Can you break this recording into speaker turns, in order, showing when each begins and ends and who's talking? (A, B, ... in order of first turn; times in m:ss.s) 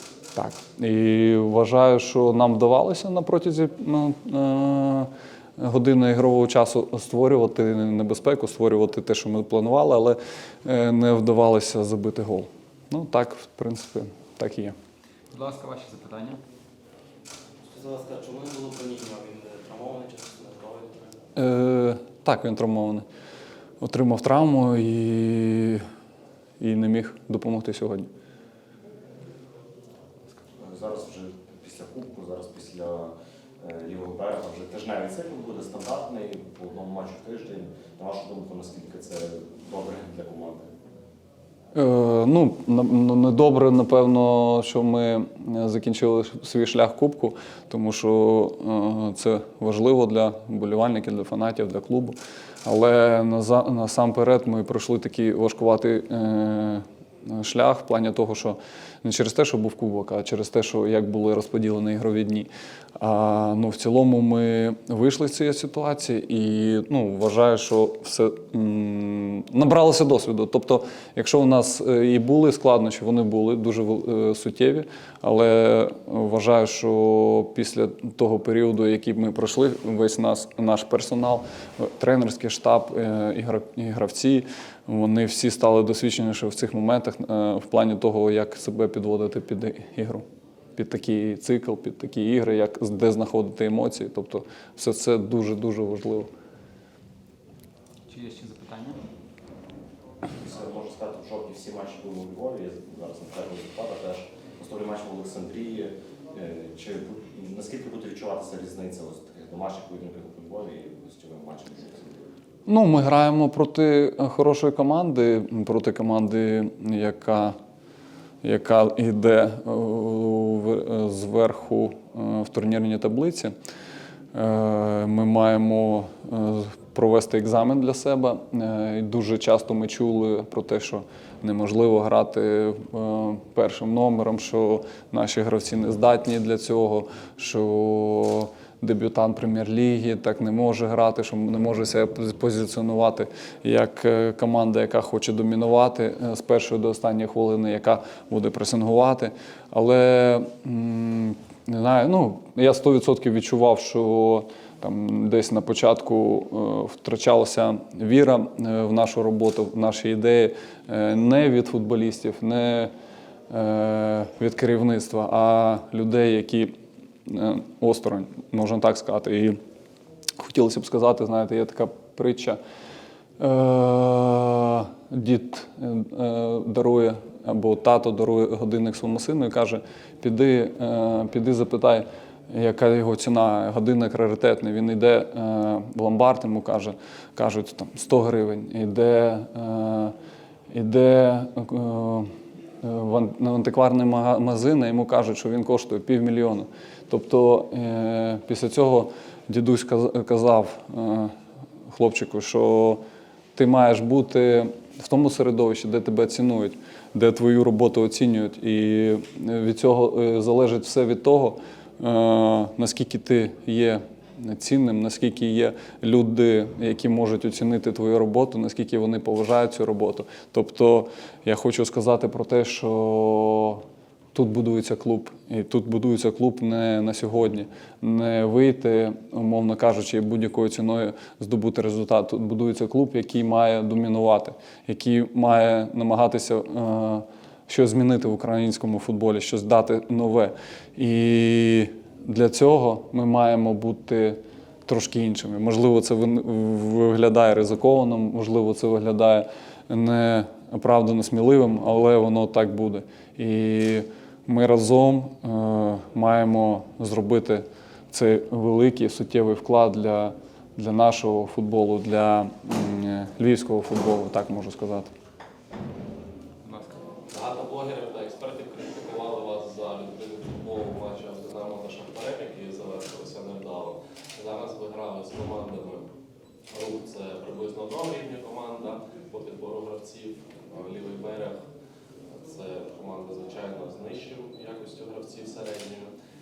0:00.3-0:14.7 A
0:15.3-0:16.4 B
0:17.9-0:20.9 C
0:21.4-0:23.0 A
0:23.8-0:25.8 A
0:26.6-0:28.1 A
0:30.6-0:40.7 D
0:41.7-1:02.5 A
1:03.0-1:30.2 A
1:30.8-1:36.3 A
1:38.1-1:39.0 B
1:40.4-1:52.2 D
1:52.6-1:57.5 A
1:58.4-2:03.5 A
2:04.3-2:42.9 A
2:43.5-2:46.7 A
2:47.2-2:49.6 A
2:50.4-2:52.6 A
2:53.4-3:10.1 A
3:10.7-3:12.3 A
3:12.8-3:21.3 A
3:21.9-3:23.0 A
3:23.5-4:25.1 A
4:26.6-4:26.9 B
4:27.3-4:36.0 E
4:28.6-4:30.1 C
4:32.2-4:32.4 C
4:33.5-4:33.8 C
4:35.2-4:35.9 C
4:36.7-4:41.5 E
4:37.2-4:38.8 C
4:39.4-4:40.1 C
4:40.7-4:41.5 C
4:42.4-4:46.0 E
4:42.5-4:43.7 C
4:44.6-4:45.8 C